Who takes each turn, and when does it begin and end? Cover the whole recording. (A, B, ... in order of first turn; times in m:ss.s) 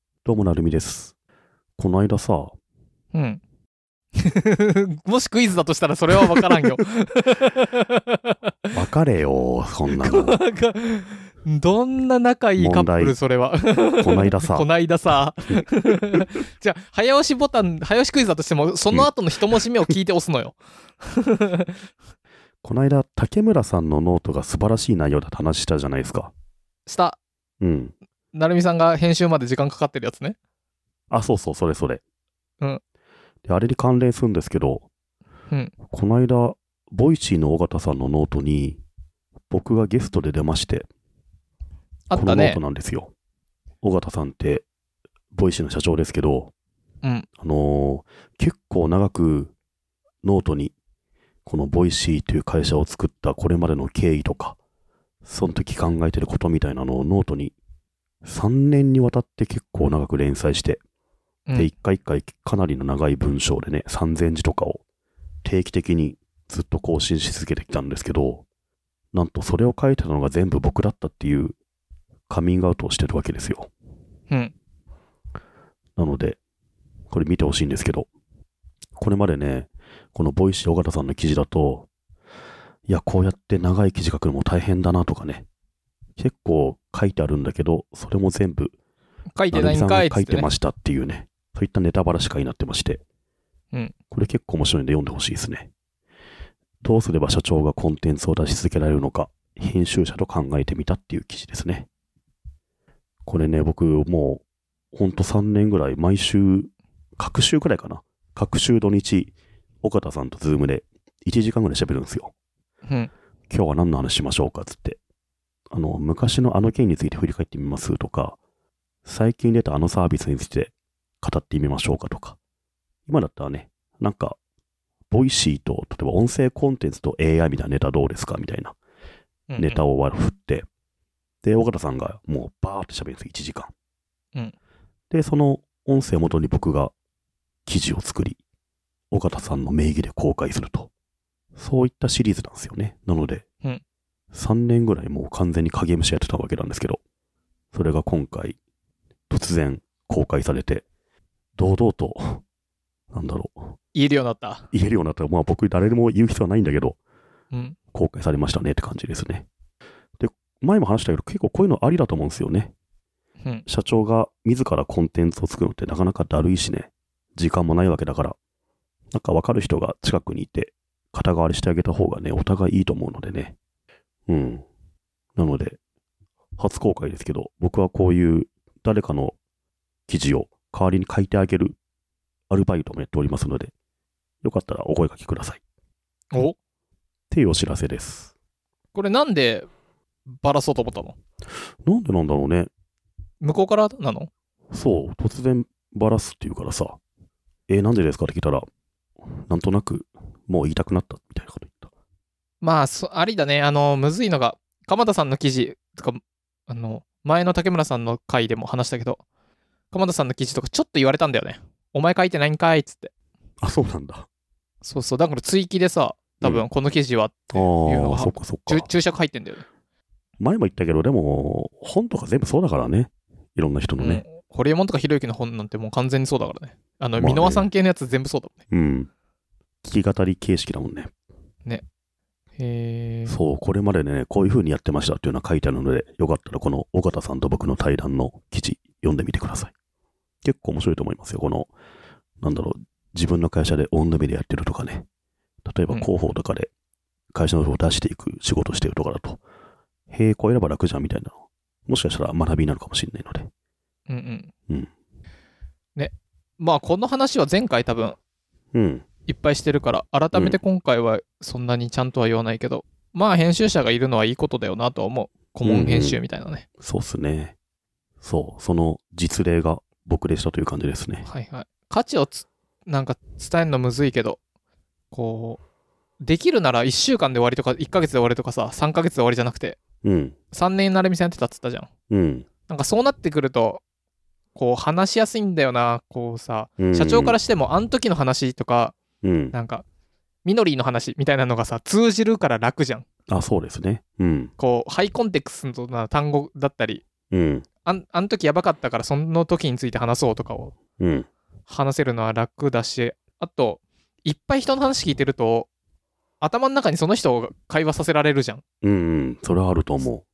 0:00.2-0:01.1 A
0:01.8-0:02.5 A
0:03.1-0:03.4 B
0:04.2-0:08.4 B
0:06.4-0:06.8 A
0:08.7-0:10.4 A
0:09.9-0:21.9 B
0:12.6-0:13.2 A
0:14.0-0:14.7 A
0:15.6-0:16.2 A
0:22.6-0:26.3 A
0:26.9-0:27.2 B
0:27.6-0:27.9 A
0:28.3-0:30.4 B
0:31.1-0:32.0 A
0:33.4-0:34.9 A
0:35.9-0:38.8 A
0:39.5-0:40.9 A
0:42.1-0:42.6 B
0:42.1-0:43.1 A
0:43.8-0:44.6 A
0:45.3-0:46.5 A
0:47.4-0:49.5 A
0:50.2-0:50.8 A
0:51.4-0:54.6 A
0:55.2-0:57.5 A
0:58.2-1:00.8 A
1:01.6-1:04.8 A
1:05.4-1:08.4 A
1:09.1-1:11.6 A
1:12.3-1:13.7 A
1:16.0-1:16.4 A
1:17.1-1:18.1 A
1:19.0-1:21.9 A
1:22.9-1:25.5 A
1:26.2-1:28.8 A
1:29.4-1:30.5 B
1:29.5-1:33.0 A
1:34.1-1:35.7 A
1:36.8-1:41.9 A
1:43.3-1:52.3 A
1:53.5-1:55.0 A
1:55.7-1:58.4 A
1:59.0-2:02.4 A
2:03.1-2:04.4 A
2:05.1-2:08.8 A
2:09.5-2:09.8 B
2:09.6-2:10.7 A
2:11.4-2:13.7 A
2:15.1-2:16.9 A
2:17.7-2:18.4 A
2:19.1-2:20.9 A
2:21.6-2:23.4 A
2:24.3-2:27.0 A
2:27.7-2:28.6 A
2:29.3-2:30.8 A
2:31.6-2:32.4 A
2:33.1-2:33.8 A
2:33.9-2:34.7 B
2:34.7-2:37.0 A
2:37.9-2:39.5 A
2:40.2-2:42.7 A
2:43.7-2:48.4 A
2:49.1-2:53.6 A
2:54.3-2:54.6 A
2:55.4-2:55.8 A
2:56.6-2:59.4 A
3:00.1-3:01.8 A
3:02.5-3:03.7 A
3:04.4-3:05.6 A
3:07.3-3:08.3 A
3:08.9-3:09.7 B
3:10.3-3:11.2 B
3:11.8-3:12.7 A
3:13.4-3:14.3 B
3:14.7-3:17.0 A
3:17.7-3:18.7 A
3:19.3-3:21.9 A
3:22.6-3:29.2 B
3:29.9-3:33.1 B
3:33.6-3:34.3 A
3:34.8-3:39.6 B
3:37.5-3:38.9 A
3:40.4-3:44.2 A
3:44.0-3:48.6 B
3:47.2-3:47.7 A
3:48.7-3:49.1 A
3:49.8-3:51.1 A
3:52.6-3:53.4 B
3:53.3-3:59.7 A
4:00.4-4:01.7 A
4:02.4-4:05.1 A
4:05.6-4:06.7 A
4:07.3-4:09.4 A
4:10.1-4:11.4 A
4:11.9-4:13.5 A
4:14.1-4:14.5 B
4:16.0-4:18.2 B
4:18.7-4:19.1 A
4:19.3-4:26.6 B
4:20.3-4:20.6 A
4:25.6-4:26.2 A
4:26.8-4:27.6 A
4:28.2-4:31.3 A
4:31.3-4:34.4 B
4:35.1-4:35.6 B
4:36.2-4:39.8 B
4:40.0-4:40.4 A
4:40.5-4:41.9 B
4:42.1-4:42.5 A
4:42.7-4:43.8 B
4:44.6-4:49.0 B
4:46.8-4:47.4 A
4:49.2-4:49.6 A
4:49.5-4:49.8 B
4:50.4-4:53.0 B
4:53.3-4:54.5 A
4:54.6-4:57.0 B
4:57.3-4:57.7 A
4:57.8-5:00.8 B
5:01.0-5:01.3 A
5:01.7-5:05.7 B
5:06.4-5:08.6 B
5:08.8-5:10.2 A